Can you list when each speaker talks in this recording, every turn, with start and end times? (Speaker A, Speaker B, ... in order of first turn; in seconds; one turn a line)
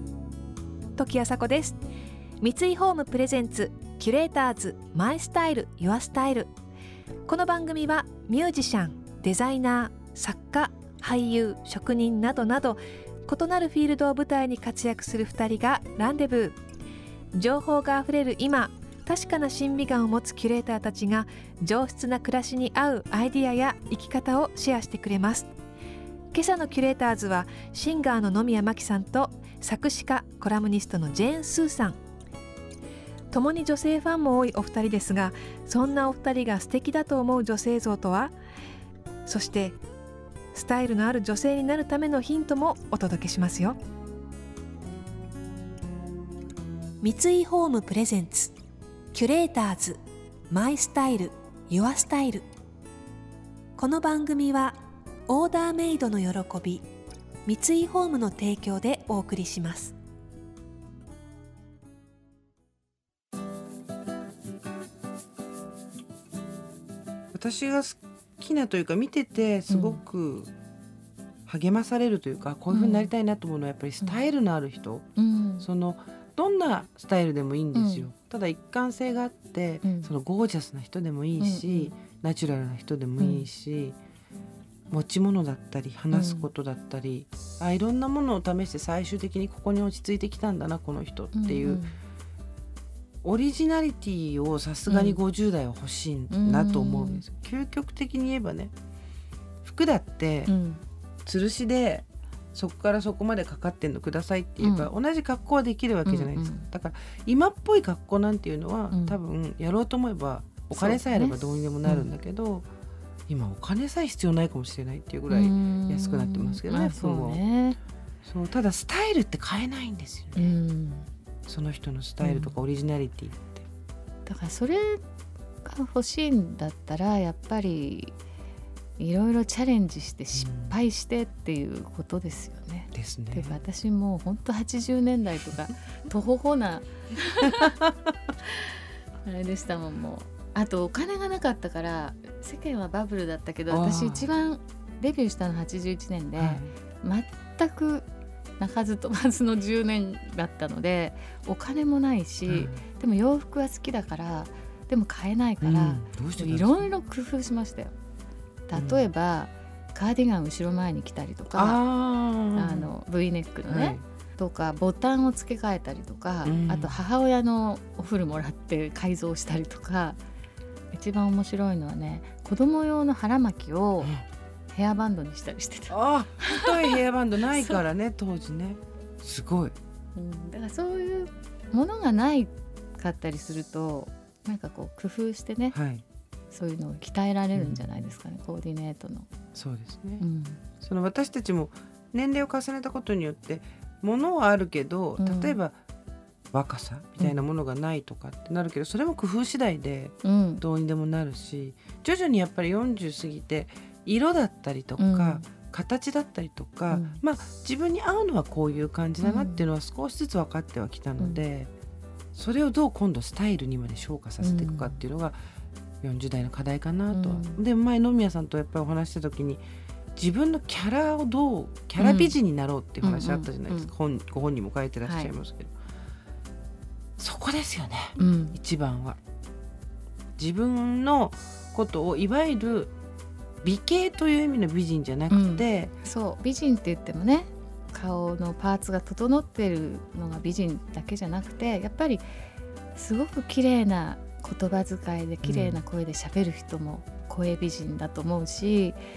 Speaker A: 1.0-1.8
Speaker A: 2.4-6.5
Speaker A: 7.3-16.6
Speaker A: 17.3-25.5
Speaker A: 26.3-32.0
Speaker A: 33.3-38.3
Speaker A: 39.3-39.8
Speaker A: 40.5-43.8
Speaker A: 47.0-48.5
Speaker A: 49.1-50.0
Speaker A: 50.5-52.4
Speaker A: 53.8-56.9
Speaker A: 57.5-60.0
Speaker B: 67.3-70.5
Speaker C: 69.7-70.0
Speaker B: 71.5-75.1
Speaker C: 72.7-73.1
Speaker C: 75.2-75.7
Speaker B: 75.6-84.0
Speaker C: 77.7-78.1
Speaker C: 79.8-80.1
Speaker C: 81.4-81.9
Speaker C: 83.2-83.5
Speaker B: 84.9-91.8
Speaker C: 86.1-86.5
Speaker C: 91.3-92.0
Speaker B: 93.2-98.7
Speaker C: 94.9-95.2
Speaker C: 96.3-97.2
Speaker B: 99.6-100.5
Speaker C: 100.5-100.8
Speaker B: 101.3-112.7
Speaker C: 104.6-104.9
Speaker C: 106.1-106.7
Speaker C: 108.9-109.2
Speaker C: 110.7-112.1
Speaker B: 113.3-117.4
Speaker C: 115.3-117.8
Speaker B: 118.2-120.6
Speaker C: 120.3-121.1
Speaker B: 121.5-123.7
Speaker C: 122.2-122.6
Speaker C: 124.3-125.0
Speaker C: 125.6-128.2
Speaker C: 129.0-137.8
Speaker B: 130.3-130.8
Speaker B: 132.9-133.6
Speaker C: 139.2-148.1
Speaker B: 143.7-144.3
Speaker B: 146.4-146.7
Speaker C: 148.6-157.9
Speaker B: 152.5-152.8
Speaker B: 155.6-156.9
Speaker C: 158.7-161.8
Speaker B: 158.7-159.1
Speaker B: 161.5-162.9
Speaker C: 162.5-170.2
Speaker B: 163.7-164.0
Speaker B: 166.4-167.0
Speaker C: 170.9-174.1
Speaker C: 174.7-177.0
Speaker B: 175.9-179.8
Speaker C: 177.5-177.8
Speaker C: 180.2-185.8
Speaker B: 185.7-186.0
Speaker C: 186.5-189.3
Speaker B: 187.6-188.0
Speaker B: 189.6-190.2
Speaker C: 190.2-190.6
Speaker B: 190.8-195.8
Speaker C: 195.2-195.6
Speaker B: 196.5-211.7
Speaker C: 200.2-200.6
Speaker C: 205.0-205.4
Speaker C: 206.9-207.2
Speaker C: 209.2-209.6
Speaker B: 212.3-215.4
Speaker C: 214.4-215.0
Speaker B: 216.0-219.6
Speaker C: 217.1-217.6
Speaker B: 220.2-225.7
Speaker C: 222.0-222.4
Speaker C: 223.0-223.9
Speaker C: 225.1-225.3
Speaker B: 227.2-229.2
Speaker C: 228.2-228.6
Speaker B: 230.4-232.9
Speaker B: 233.6-235.9
Speaker C: 235.3-242.3
Speaker C: 242.9-249.0
Speaker B: 245.4-245.8